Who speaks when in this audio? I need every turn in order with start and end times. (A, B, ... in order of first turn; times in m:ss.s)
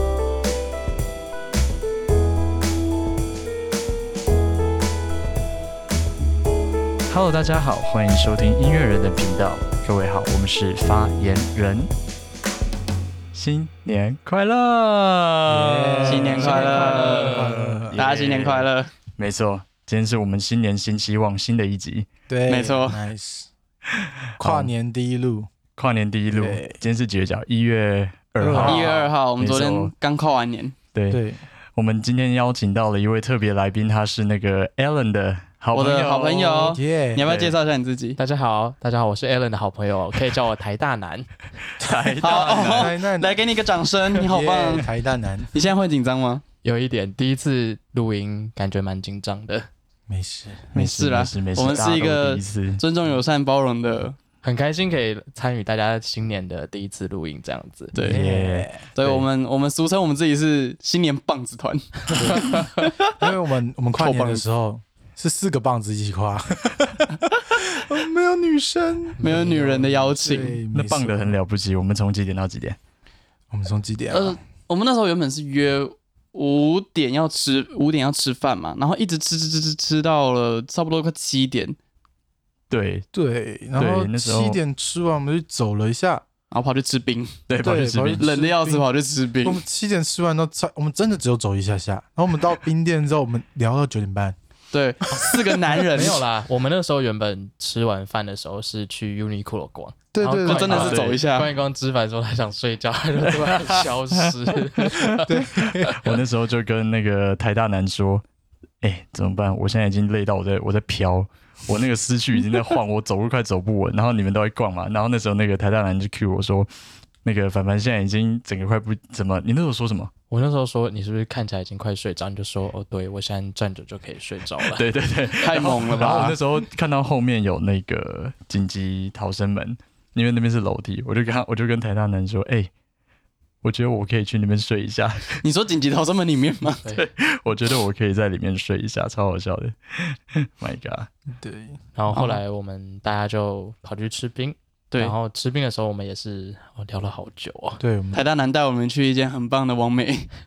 0:07.1-0:11.9 A
0:13.3-0:22.1 A
0:15.4-0:18.0 B
0:16.0-0:18.9 C
0:22.3-0:23.5 B
0:22.5-0:23.0 C
0:24.0-0:24.7 A
0:24.4-0:25.5 B
0:25.8-0:29.9 A
0:26.3-0:26.8 B
0:28.4-0:28.9 B
0:28.6-0:30.8 C
0:30.9-0:31.2 A
0:31.1-0:31.4 B
0:31.7-0:37.6 A
0:35.7-0:38.2 C
0:36.7-0:37.3 B
0:38.2-0:41.3 D
0:41.8-0:42.9 A
0:41.8-0:43.4 B
0:42.2-0:44.9 C
0:44.2-0:45.5 B
0:45.5-0:46.4 C
0:46.6-0:49.7 D
0:50.1-0:50.7 B
0:50.7-0:54.2 C
0:50.7-0:52.8 A
0:54.4-0:57.9 D
0:57.9-0:58.2 C
0:58.0-0:59.3 A
0:58.0-0:58.8 B
0:58.9-1:03.1 C
1:02.1-1:02.5 B
1:03.2-1:09.2 B
1:04.0-1:04.4 C
1:09.2-1:10.2 D
1:09.2-1:10.6 C
1:10.1-1:11.4 B
1:10.7-1:12.8 A
1:13.5-1:14.4 B
1:14.1-1:21.8 C
1:22.7-1:23.0 A
1:23.1-1:26.2 B
1:23.8-1:24.6 A
1:26.5-1:27.4 C
1:27.5-1:28.2 A
1:27.6-1:28.8 B
1:28.2-1:29.6 C
1:29.4-1:34.4 B
1:34.7-1:36.2 C
1:35.9-1:45.3 D
1:40.1-1:40.9 B
1:40.4-1:41.5 C
1:40.6-1:41.2 A
1:43.2-1:45.0 A
1:45.2-1:45.9 B
1:45.5-1:48.2 A
1:48.8-1:56.7 A
1:57.2-2:00.1 A
2:00.3-2:04.8 D
2:04.6-2:12.7 A
2:05.4-2:06.4 C
2:13.6-2:15.4 A
2:15.4-2:16.8 C
2:16.9-2:21.1 A
2:21.4-2:22.4 B
2:21.9-2:27.8 D
2:27.8-2:28.2 B
2:28.1-2:30.3 C